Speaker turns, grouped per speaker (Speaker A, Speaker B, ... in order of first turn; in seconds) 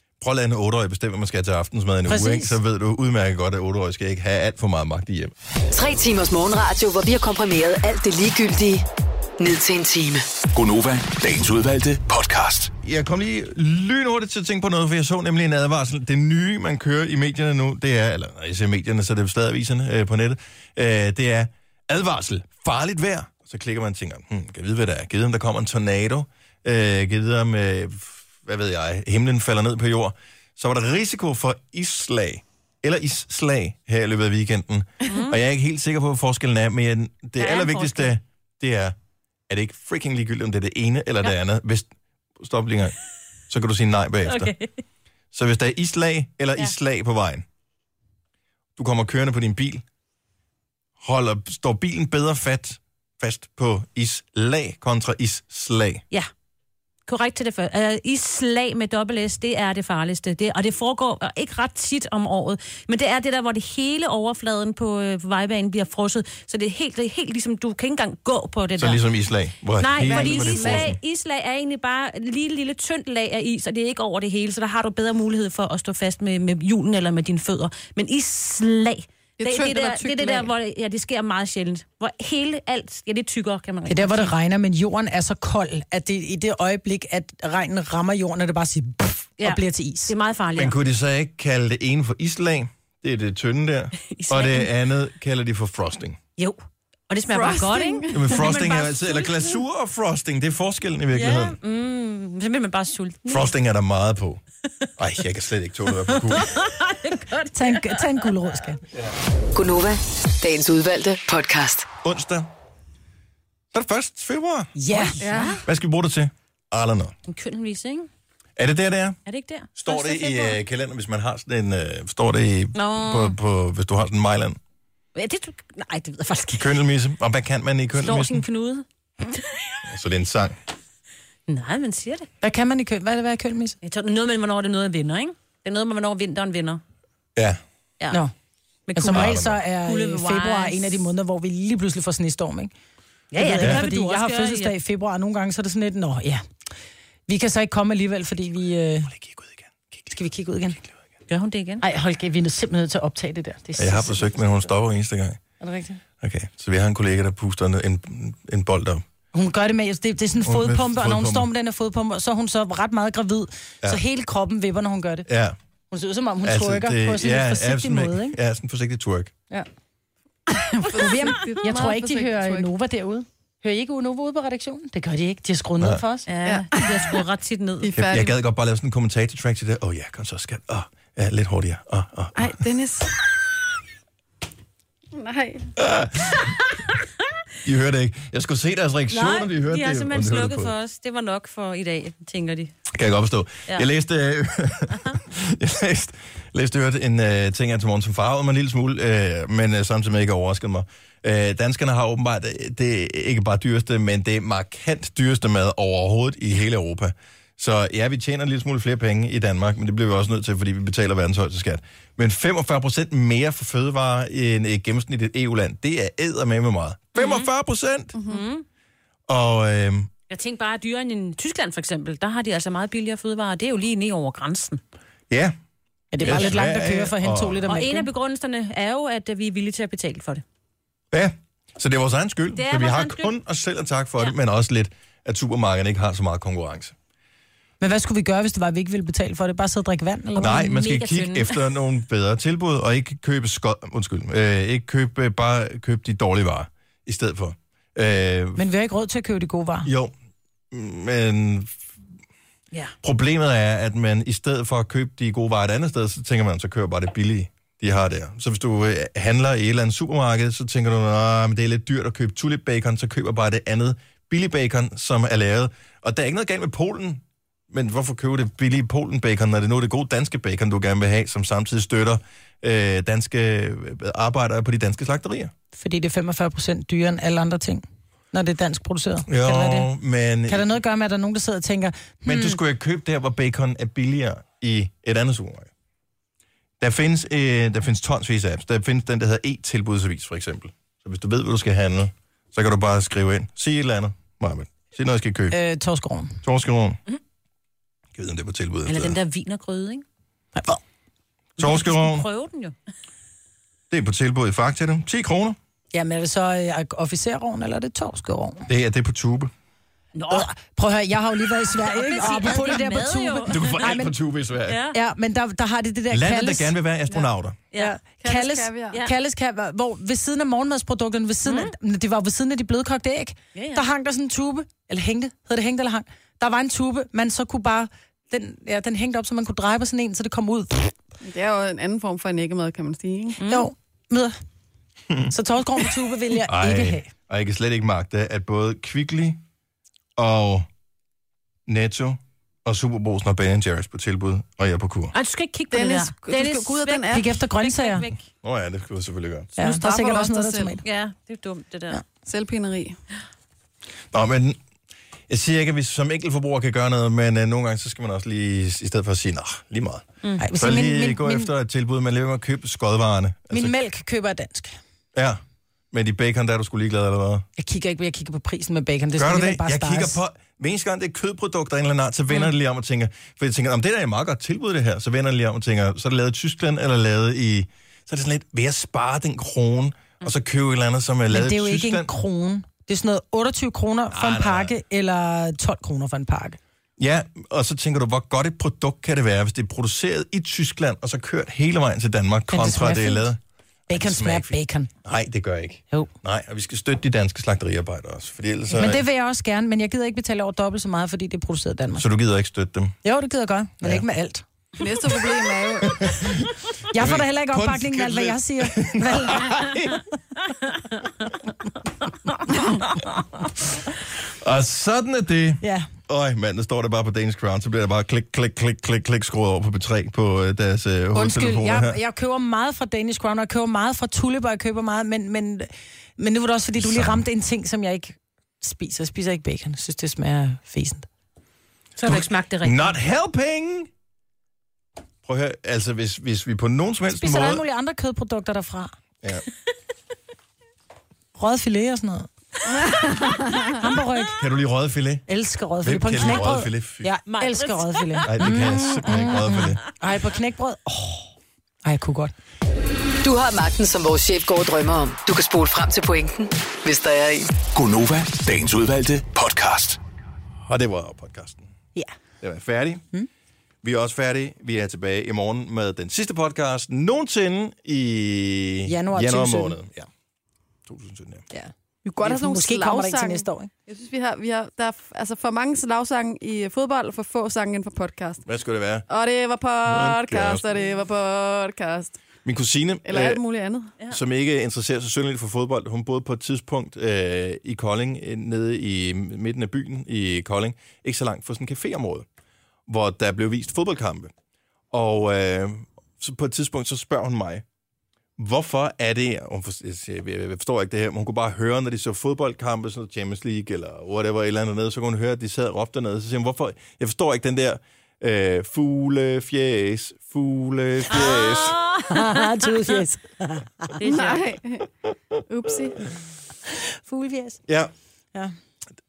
Speaker A: 0.2-5.3, 12.8-38.9, 39.5-41.9, 42.4-43.0, 43.5-44.5, 45.3-47.4, 48.8-49.8, 51.0-56.0, 68.8-71.0, 90.6-96.2, 98.1-101.6, 103.3-104.4, 105.0-106.5, 112.0-112.5, 113.7-114.7, 115.6-117.1, 118.6-119.2, 119.8-124.6, 126.6-128.4, 129.9-130.6, 139.0-139.6, 143.6-143.8, 149.1-150.1, 153.8-155.4, 156.2-159.0, 160.4-161.5, 165.3-165.6, 166.4-169.3, 177.9-182.5, 185.8-186.6, 187.6-190.7, 192.9-218.2, 219.3-220.1, 225.3-225.5, 226.2-227.7, 231.1-236.9, 240.4-248.6, 249.8-250.1, 250.7-251.8, 253.0-275.5, 279.3-280.7, 282.2-285.7, 286.8-295.6, 296.4-297.0, 298.1-299.2, 301.6-302.2, 303.9-305.6, 308.7-309.5, 313.5-314.8, 316.1-317.6, 336.4-339.4, 340.2-340.6, 341.7-345.1, 348.4-349.5, 354.1-354.6, 355.3-363.7, 365.1-365.4, 365.9-367.4, 369.2-382.1, 384.1-384.7, 387.0-399.0, 401.9-402.9, 405.8-410.0, 414.2-422.0, 426.8-427.2, 432.0-433.9, 435.2-437.6, 444.4-445.2, 445.8-447.1, 448.3-449.8, 460.6-461.7, 462.4-463.0, 463.8-470.1, 470.9-471.4, 478.4-479.1, 479.8-480.6, 482.4-483.4, 484.1-492.2, 492.9-494.3, 494.9-497.6, 498.4-511.8
Speaker B: 2.1-2.6, 83.8-90.1, 107.5-108.8, 114.7-115.3, 132.4-133.8, 138.9-142.7, 143.4-146.4, 147.3-149.1, 150.1-150.8, 151.8-154.7, 155.6-156.0, 159.3-165.3, 165.9-168.4, 170.9-176.3, 226.1-228.1, 237.8-240.7, 248.6-249.9, 275.8-279.9, 280.5-282.6, 295.5-296.4, 300.5-300.8, 305.9-308.6, 310.3-314.2, 314.9-316.7, 317.8-330.9, 333.4-334.4, 335.3-337.1, 347.1-348.1, 349.6-350.8, 360.4-361.5, 363.5-364.8, 367.6-370.2, 381.3-386.6, 392.5-393.3, 393.9-394.9, 398.7-402.0, 403.0-404.4, 406.9-409.7, 415.6-415.9, 421.1-431.1, 437.1-438.9, 441.4-442.3, 442.8-444.4, 445.3-451.3, 451.8-452.3, 468.9-469.8, 471.5-473.7, 512.1-514.0, 516.7-517.6
Speaker C: 5.7-8.8, 9.4-10.2, 109.5-111.9, 453.2-457.5
Speaker D: 10.5-12.7, 457.6-460.0
Speaker E: 35.1-35.4, 37.4-38.1, 44.2-44.7, 57.1-69.0, 69.8-84.3, 89.4-90.8, 94.1-94.7, 96.4-99.5, 101.1-103.5, 106.2-108.3, 114.9-115.6, 117.3-118.1, 119.2-120.6, 122.7-123.3, 125.1-126.8, 127.9-129.8, 131.5-132.3, 133.8-136.8, 138.9-141.0, 143.3-144.7, 151.3-151.8, 176.3-177.9, 189.1-192.7, 217.1-217.5, 218.3-218.6, 220.3-224.8, 226.2-226.6, 227.7-230.4, 232.6-233.3, 240.4-241.6, 298.9-300.0, 301.6-302.7, 310.1-310.5, 311.7-313.9, 314.7-315.0, 317.7-318.0, 321.4-321.7, 323.5-323.8, 333.4-333.7, 345.1-348.2, 350.8-352.0, 432.0-433.0, 447.3-448.6, 511.1-512.7, 514.0-514.5
Speaker F: 70.0-71.0, 79.4-80.5, 97.3-98.4, 115.2-115.6, 170.5-172.7, 176.4-177.2, 177.8-178.3, 182.3-183.1, 185.1-185.7, 218.2-218.4, 318.2-319.0, 331.2-333.4, 345.7-347.3, 349.6-350.8, 352.2-353.0, 404.8-406.2, 472.2-478.4, 479.1-482.1, 483.0-483.9, 514.0-514.9, 515.5-516.0